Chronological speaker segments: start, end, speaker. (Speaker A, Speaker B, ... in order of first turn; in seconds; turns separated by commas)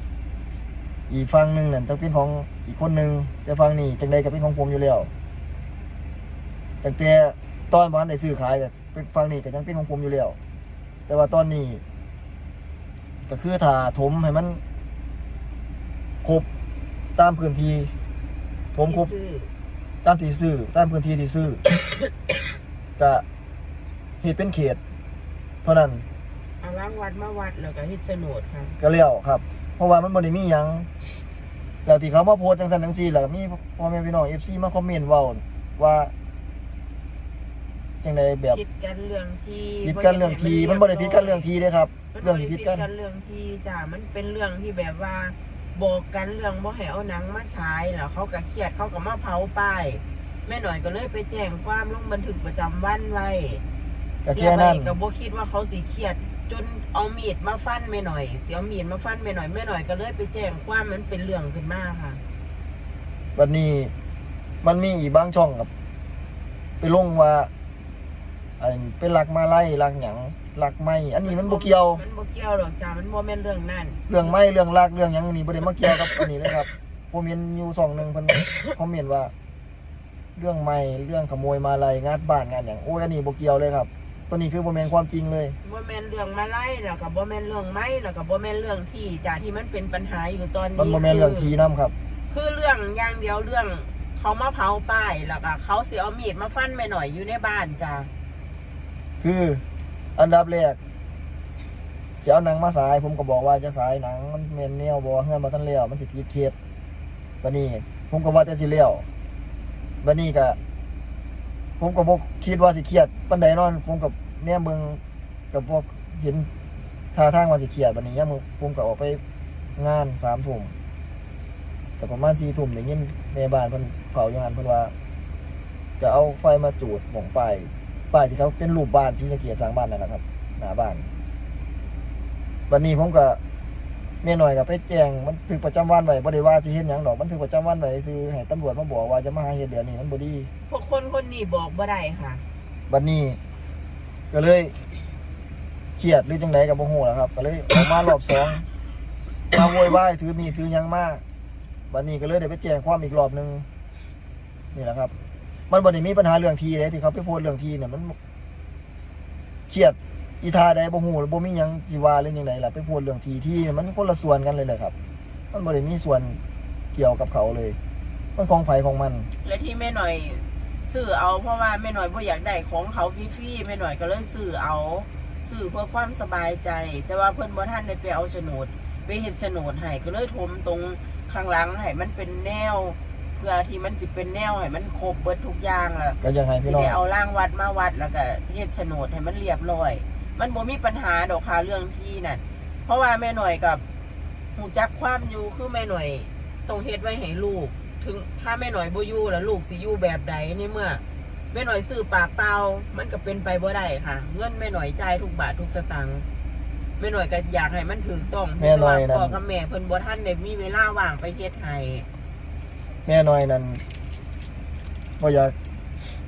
Speaker A: 1.1-5.1, Speaker A: 6.8-10.4, Speaker A: 11.1-11.8, Speaker A: 13.3-14.6, Speaker A: 17.2-17.9, Speaker A: 18.7-19.1, Speaker B: 18.8-19.5, Speaker A: 20.0-21.6, Speaker A: 23.0-23.2, Speaker A: 24.2-24.8, Speaker A: 25.6-26.1, Speaker B: 26.6-28.8, Speaker A: 28.8-30.9, Speaker A: 31.9-36.1, Speaker A: 38.0-38.6, Speaker B: 38.5-41.5, Speaker A: 39.8-42.9, Speaker B: 42.1-53.6, Speaker A: 54.2-55.0, Speaker B: 54.3-62.2, Speaker A: 63.4-63.9, Speaker A: 64.6-65.7, Speaker A: 66.8-67.5, Speaker A: 68.6-72.0, Speaker B: 71.2-74.4, Speaker A: 74.1-79.3, Speaker A: 80.4-85.6, Speaker B: 85.6-91.5, Speaker A: 90.8-91.9, Speaker B: 92.3-98.1, Speaker A: 99.2-99.6, Speaker A: 100.2-100.8, Speaker A: 102.2-106.5, Speaker A: 107.4-109.0, Speaker A: 110.0-110.6, Speaker A: 111.8-115.0, Speaker A: 115.5-116.5, Speaker A: 117.1-119.2, Speaker A: 119.8-120.7, Speaker A: 122.0-124.9, Speaker A: 126.0-131.1, Speaker A: 132.7-133.4, Speaker A: 134.2-140.5, Speaker B: 140.7-142.5, Speaker A: 142.9-143.4, Speaker A: 144.3-144.8, Speaker A: 146.0-148.7, Speaker A: 149.5-151.2, Speaker A: 151.9-153.7, Speaker A: 154.7-155.1, Speaker A: 155.7-158.2, Speaker A: 159.7-164.9, Speaker A: 165.5-166.4, Speaker A: 166.9-167.8, Speaker A: 168.4-169.3, Speaker B: 169.4-193.8, Speaker A: 186.2-187.0, Speaker B: 194.6-206.3, Speaker B: 207.0-212.1, Speaker A: 208.6-209.4, Speaker A: 213.1-213.8, Speaker A: 215.2-215.6